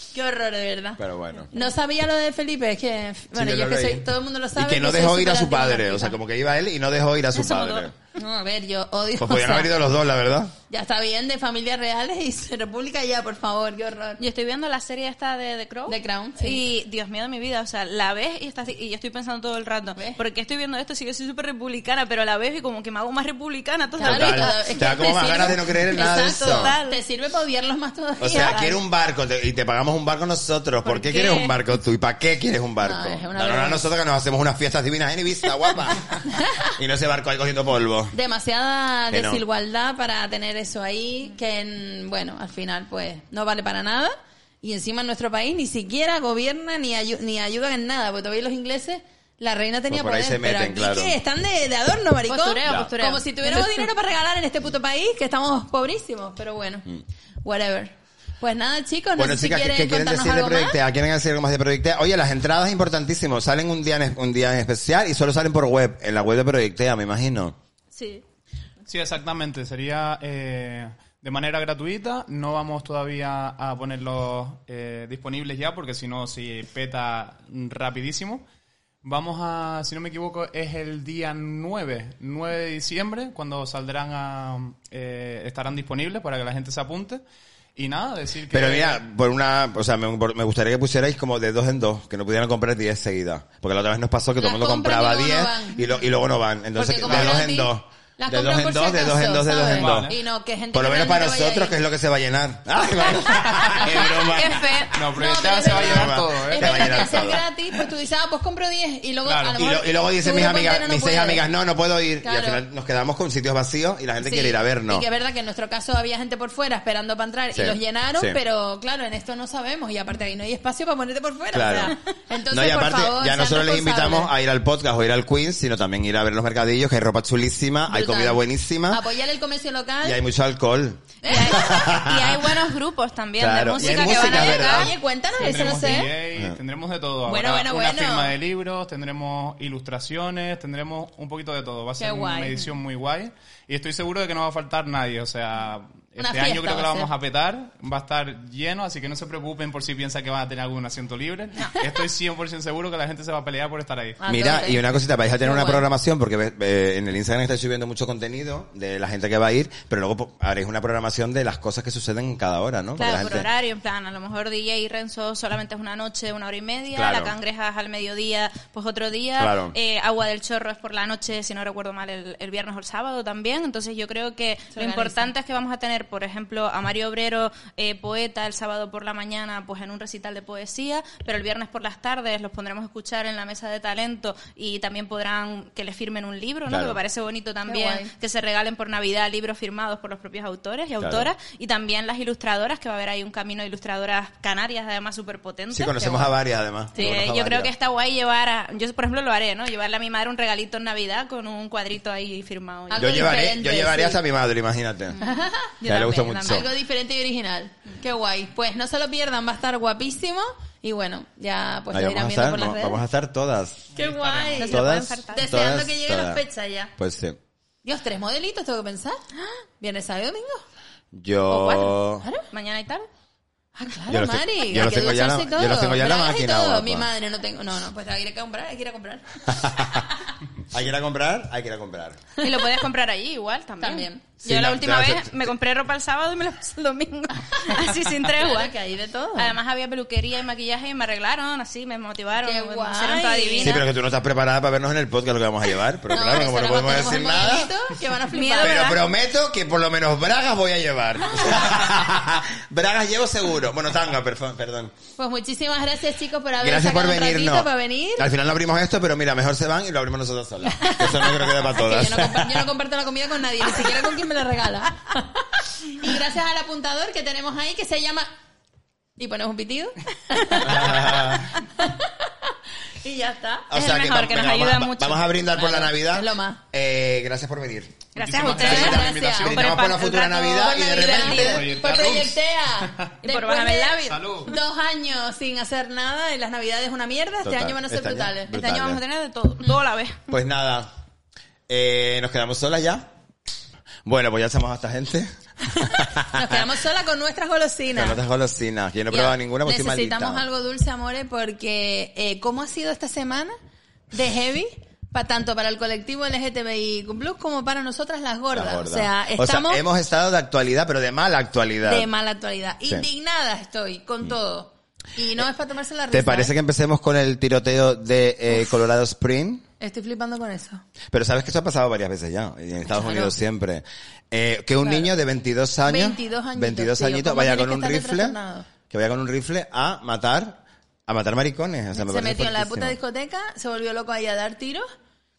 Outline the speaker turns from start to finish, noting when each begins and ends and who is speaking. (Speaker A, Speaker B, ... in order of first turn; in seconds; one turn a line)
Speaker A: 0.1-6.2
Speaker B: 1.0-1.5
Speaker B: 3.3-7.9
Speaker C: 7.3-7.9
Speaker A: 8.1-9.7
Speaker B: 9.2-10.5
Speaker A: 10.7-14.2
Speaker C: 14.2-27.0
Speaker A: 15.9-16.6
Speaker A: 24.0-28.8
Speaker B: 24.0-26.8
Speaker B: 28.2-36.2
Speaker C: 30.8-31.6
Speaker A: 32.8-33.9
Speaker A: 36.2-36.8
Speaker B: 36.8-38.1
Speaker A: 38.1-60.8
Speaker B: 39.1-39.4
Speaker B: 49.9-51.2
Speaker C: 52.3-53.9
Speaker B: 52.6-52.9
Speaker B: 59.2-67.6
Speaker C: 68.0-68.2
Speaker D: 68.9-78.4
Speaker D: 79.0-87.2
Speaker D: 87.7-89.0
Speaker B: 88.5-100.1
Speaker A: 94.4-95.8
Speaker A: 96.7-101.7
Speaker D: 99.7-100.2
Speaker B: 100.7-104.7
Speaker A: 103.8-111.4
Speaker C: 103.8-104.9
Speaker D: 104.9-107.3
Speaker B: 105.6-107.4
Speaker D: 109.2-109.6
Speaker B: 109.6-115.0
Speaker A: 112.2-112.6
Speaker A: 114.2-124.3
Speaker B: 117.5-118.4
Speaker B: 121.5-121.9
Speaker B: 122.5-129.0
Speaker A: 127.9-130.2
Speaker B: 130.0-132.6
Speaker A: 131.2-131.9
Speaker C: 131.3-134.9
Speaker B: 133.4-134.9
Speaker A: 133.8-136.1
Speaker D: 135.4-154.2
Speaker A: 137.2-138.3
Speaker A: 142.0-142.6
Speaker A: 146.2-147.1
Speaker A: 154.2-154.8
Speaker B: 154.3-163.5
Speaker A: 155.4-155.8
Speaker C: 163.0-196.4
Speaker B: 166.9-167.3
Speaker B: 169.4-169.7
Speaker A: 174.7-175.3
Speaker B: 186.7-187.0
Speaker A: 187.7-188.1
Speaker B: 191.0-191.3
Speaker B: 195.7-197.7
Speaker C: 196.9-203.4
Speaker A: 202.9-204.2
Speaker B: 203.0-205.2
Speaker A: 205.2-205.8
Speaker C: 205.2-206.7
Speaker B: 205.8-206.7
Speaker A: 206.4-213.0
Speaker B: 211.9-213.9
Speaker D: 213.9-214.6
Speaker A: 213.9-216.9
Speaker C: 214.6-215.5
Speaker B: 214.6-216.4
Speaker B: 217.0-217.4
Speaker A: 217.8-219.2
Speaker A: 219.8-220.6
Speaker B: 221.1-222.2
Speaker A: 221.5-222.4
Speaker C: 222.5-223.1
Speaker A: 223.8-230.1
Speaker B: 224.1-227.1
Speaker B: 229.5-230.0
Speaker B: 230.7-232.2
Speaker C: 232.4-238.7
Speaker A: 233.8-234.2
Speaker B: 234.4-235.4
Speaker A: 237.5-237.8
Speaker A: 238.3-239.5
Speaker C: 239.3-243.8
Speaker A: 242.4-243.8
Speaker B: 243.6-247.7
Speaker A: 246.1-249.0
Speaker C: 248.3-249.0
Speaker B: 248.6-254.9
Speaker A: 255.2-258.3
Speaker B: 256.6-262.7
Speaker A: 260.7-268.3
Speaker A: 269.2-272.5
Speaker B: 270.6-271.5
Speaker A: 273.0-273.7
Speaker B: 273.7-281.7
Speaker C: 273.7-275.9
Speaker A: 275.8-276.6
Speaker C: 278.1-281.5
Speaker D: 278.2-279.7
Speaker A: 278.4-279.6
Speaker A: 280.5-288.6
Speaker D: 281.3-283.1
Speaker C: 283.2-284.2
Speaker D: 284.0-284.6
Speaker B: 287.4-289.0
Speaker C: 288.5-290.3
Speaker B: 290.3-290.9
Speaker B: 291.7-293.1
Speaker B: 294.0-296.6
Speaker A: 295.7-298.2
Speaker B: 297.9-300.4
Speaker A: 299.1-303.5
Speaker A: 304.1-309.8
Speaker B: 308.5-312.1
Speaker A: 311.8-316.5
Speaker B: 316.1-319.6
Speaker A: 319.8-320.8
Speaker B: 321.1-333.0
Speaker A: 322.8-323.3
Speaker A: 324.8-325.1
Speaker A: 325.8-328.7
Speaker A: 331.9-334.9